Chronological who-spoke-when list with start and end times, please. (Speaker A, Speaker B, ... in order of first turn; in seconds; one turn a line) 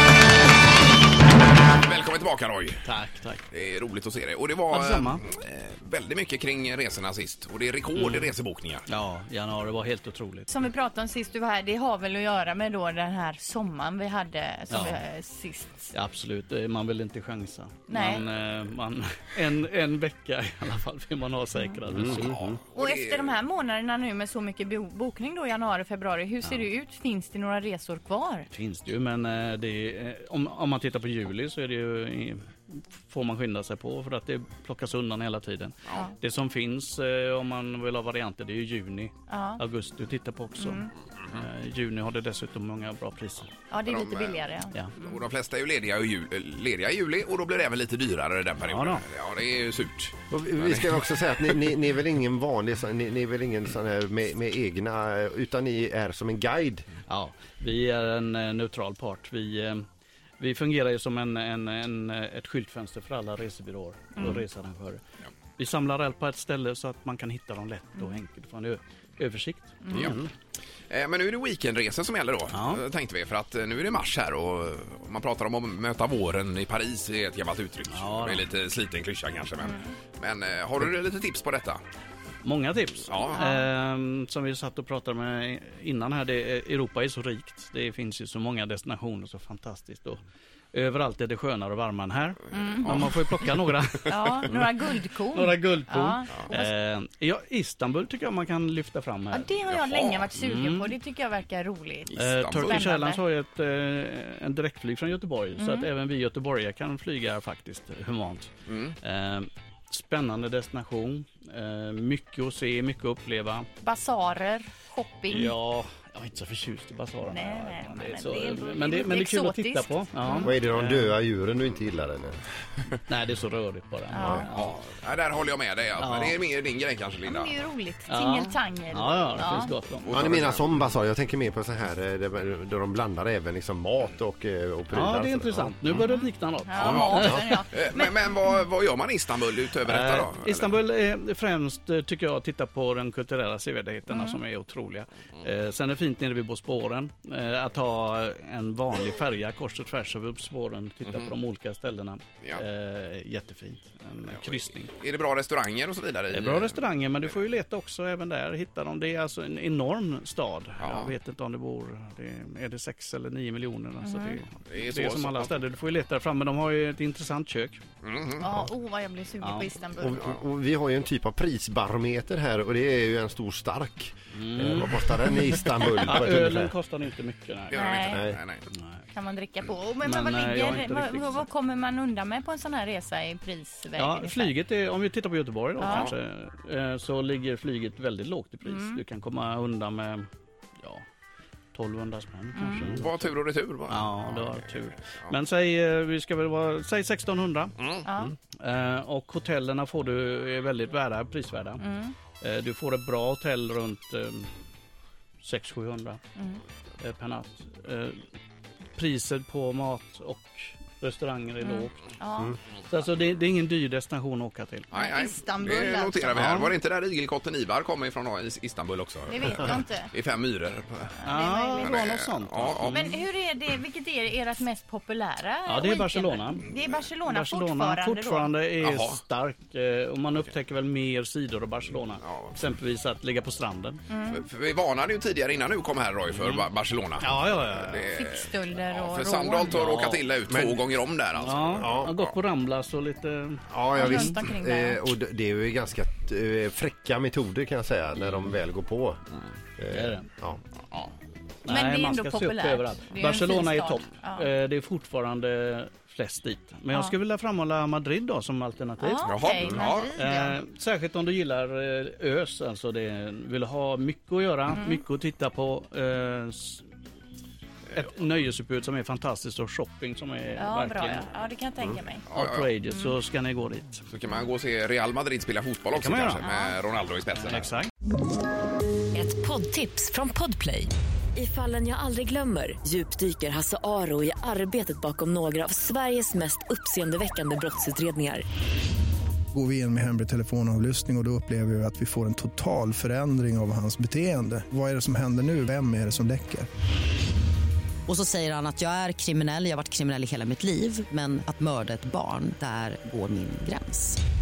Speaker A: 1.7-2.8
Speaker B: 2.8-3.5
Speaker A: 3.5-8.8
Speaker B: 4.7-5.2
Speaker B: 8.0-8.3
Speaker B: 8.9-10.5
Speaker C: 10.5-15.9
Speaker B: 14.7-15.0
Speaker B: 15.9-22.5
Speaker C: 17.9-18.3
Speaker D: 22.0-22.6
Speaker A: 22.2-23.4
Speaker C: 22.8-28.5
Speaker B: 28.5-43.5
Speaker C: 39.3-39.6
Speaker C: 40.6-40.9
Speaker C: 43.7-45.1
Speaker A: 43.8-51.0
Speaker B: 48.6-49.0
Speaker D: 50.3-56.9
Speaker B: 57.1-59.9
Speaker B: 60.4-65.0
Speaker C: 64.2-64.4
Speaker B: 65.6-70.2
Speaker C: 69.8-70.1
Speaker A: 69.9-70.2
Speaker A: 70.9-81.8
Speaker B: 72.5-72.8
Speaker B: 77.9-78.5
Speaker B: 82.4-90.2
Speaker A: 83.1-83.5
Speaker C: 83.3-83.7
Speaker B: 90.7-99.5
Speaker C: 92.5-93.0
Speaker A: 92.8-93.1
Speaker C: 94.0-96.7
Speaker C: 99.3-103.2
Speaker A: 99.7-100.3
Speaker B: 100.3-101.0
Speaker A: 102.1-102.9
Speaker B: 102.2-108.5
Speaker C: 105.6-105.9
Speaker A: 108.7-109.0
Speaker B: 109.0-113.7
Speaker C: 113.8-115.5
Speaker B: 115.3-121.2
Speaker C: 117.2-120.5
Speaker D: 120.4-122.4
Speaker B: 123.0-124.8
Speaker C: 124.1-124.5
Speaker A: 124.5-127.6
Speaker B: 126.0-126.4
Speaker C: 127.2-129.8
Speaker B: 128.1-130.4
Speaker A: 130.0-130.8
Speaker D: 130.1-136.0
Speaker B: 134.9-137.6
Speaker C: 135.9-138.5
Speaker A: 136.8-140.8
Speaker B: 139.8-154.9
Speaker C: 144.1-144.4
Speaker A: 154.3-156.8
Speaker B: 156.3-167.8
Speaker A: 160.8-161.1
Speaker C: 164.0-164.4
Speaker A: 164.7-165.5
Speaker A: 168.0-168.5
Speaker C: 168.4-170.2
Speaker B: 169.4-169.8
Speaker D: 170.0-176.8
Speaker B: 174.3-175.1
Speaker B: 175.8-177.9
Speaker A: 177.7-178.7
Speaker C: 177.8-178.3
Speaker D: 178.1-178.4
Speaker B: 178.7-179.0
Speaker C: 179.1-184.5
Speaker B: 180.0-181.5
Speaker B: 183.9-190.3
Speaker C: 185.8-186.1
Speaker A: 185.9-186.1
Speaker C: 188.6-189.0
Speaker B: 190.8-191.0
Speaker B: 191.7-193.3
Speaker C: 192.6-192.9
Speaker A: 192.8-194.7
Speaker B: 193.9-197.8
Speaker A: 197.8-198.1
Speaker C: 198.0-198.3
Speaker B: 198.6-201.8
Speaker C: 201.8-202.2
Speaker B: 202.4-204.5
Speaker B: 205.4-206.2
Speaker C: 206.3-206.6
Speaker B: 207.0-208.2
Speaker B: 208.9-212.0
Speaker C: 211.6-212.6
Speaker B: 212.9-214.9
Speaker A: 214.9-223.2
Speaker C: 214.9-216.5
Speaker B: 216.3-216.7
Speaker C: 219.3-220.1
Speaker C: 221.2-222.0
Speaker B: 221.2-223.2
Speaker C: 222.9-228.6
Speaker B: 225.7-226.6
Speaker B: 227.2-234.0
Speaker A: 228.8-229.2
Speaker A: 232.2-232.5
Speaker C: 234.1-234.4
Speaker A: 234.3-242.3
Speaker B: 236.3-236.7
Speaker B: 237.2-238.1
Speaker C: 238.1-239.9
Speaker B: 239.7-240.2
Speaker D: 240.5-240.8
Speaker B: 241.4-244.4
Speaker D: 241.8-242.1
Speaker D: 243.7-249.2
Speaker C: 243.9-245.0
Speaker D: 249.8-250.6
Speaker B: 249.9-250.3
Speaker B: 251.7-266.9
Speaker C: 251.7-254.5
Speaker C: 259.0-260.6
Speaker A: 259.2-260.1
Speaker C: 264.7-265.0
Speaker B: 267.9-271.3
Speaker C: 270.6-272.3
Speaker A: 272.3-272.7
Speaker B: 272.3-274.1
Speaker C: 272.9-273.2
Speaker A: 274.1-277.7
Speaker B: 275.9-276.5
Speaker C: 276.4-276.8
Speaker B: 277.4-277.9
Speaker E: 279.1-288.4
Speaker F: 289.5-296.7
Speaker G: 298.1-304.2